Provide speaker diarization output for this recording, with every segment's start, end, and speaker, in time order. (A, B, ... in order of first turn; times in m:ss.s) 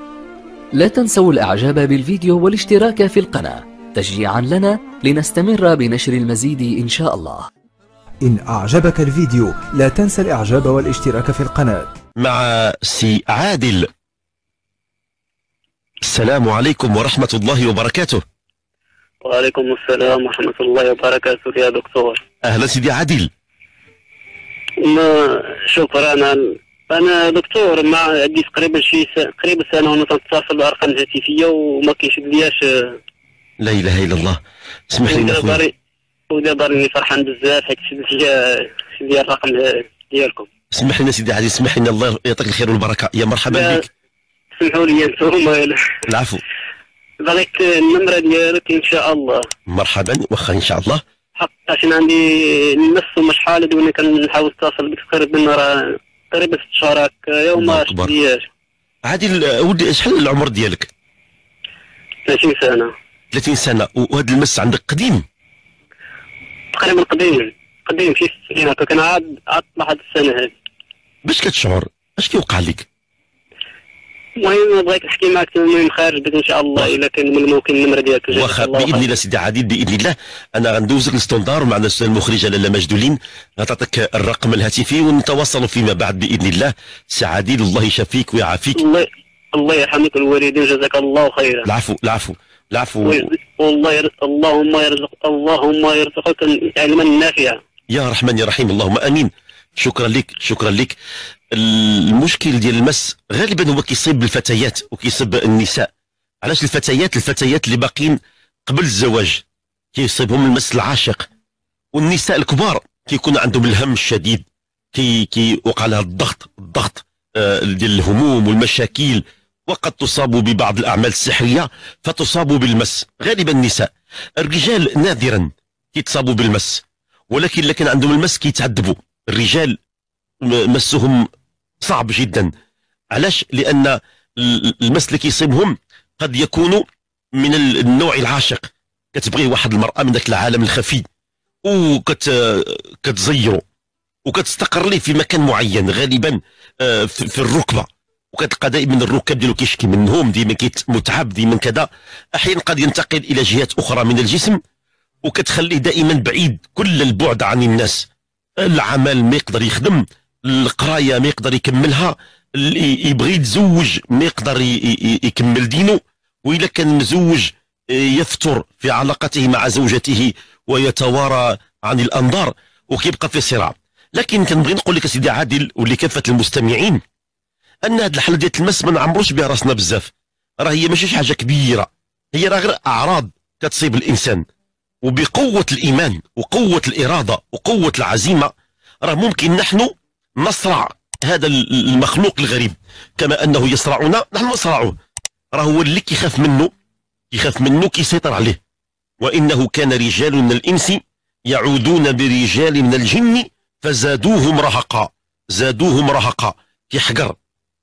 0:00.8-0:07.5 A
0:08.2-0:11.9 B
0:12.2-0:13.9 C
0:16.1-0:18.2 C
0:19.2-0:22.2 D
0:22.4-0:23.3 C
0:24.8-0:33.0 D
0:33.6-0:34.4 C
0:34.9-0:35.6 C
0:35.1-0:35.7 D
0:36.3-0:40.5 D
0:40.7-0:43.8 C
0:43.5-0:43.8 D
0:44.6-0:45.9 D
0:46.1-0:46.4 C
0:47.2-0:49.4 D
0:49.7-0:51.0 C
0:51.4-0:58.5 D
0:57.6-0:58.1 C
0:59.1-1:00.9 C
1:02.3-1:02.9 D
1:03.3-1:05.2 C
1:06.7-1:10.6 D
1:11.2-1:12.9 C
1:14.4-1:19.1 D
1:18.3-1:28.8 C
1:28.8-1:31.7 D
1:31.6-1:33.3 C
1:33.0-1:37.6 D
1:37.9-1:41.0 C
1:41.6-1:45.9 C
1:46.4-1:49.4 C
1:50.0-1:51.3 C
1:51.9-2:09.8 C
2:10.4-2:11.3 C
2:11.8-2:12.5 C
2:13.1-2:16.8 C
2:17.4-2:21.0 C
2:21.6-2:23.6 C
2:24.3-2:34.6 C
2:35.2-2:38.1 C
2:38.6-2:57.0 C
2:57.9-3:04.4 C
3:05.0-3:08.5 C
3:09.0-3:15.0 C
3:15.6-3:16.7 C
3:17.3-3:18.6 C
3:19.2-3:27.4 C